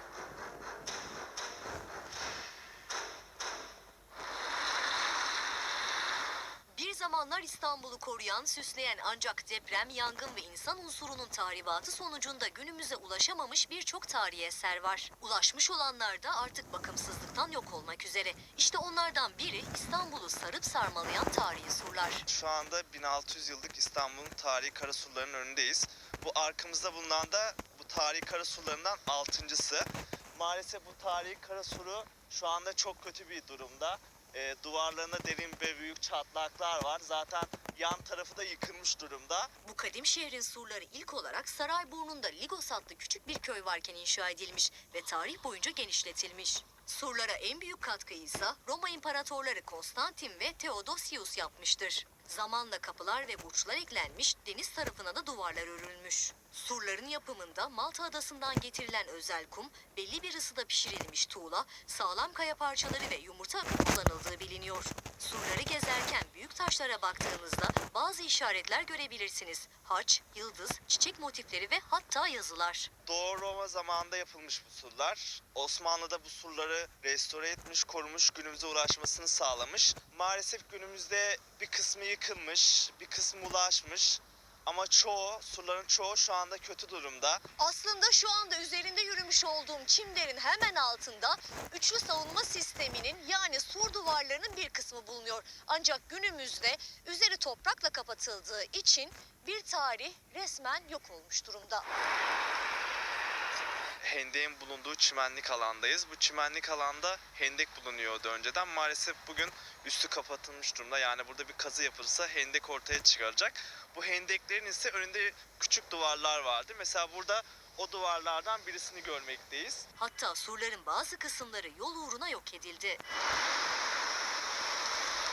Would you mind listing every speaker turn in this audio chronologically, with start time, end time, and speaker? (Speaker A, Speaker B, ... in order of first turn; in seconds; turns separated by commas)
Speaker A: 6.7-22.2, Speaker B: 22.2-39.5, Speaker A: 39.6-72.9, Speaker B: 73.0-87.4, Speaker A: 87.6-101.8, Speaker B: 104.0-119.9, Speaker A: 120.0-123.0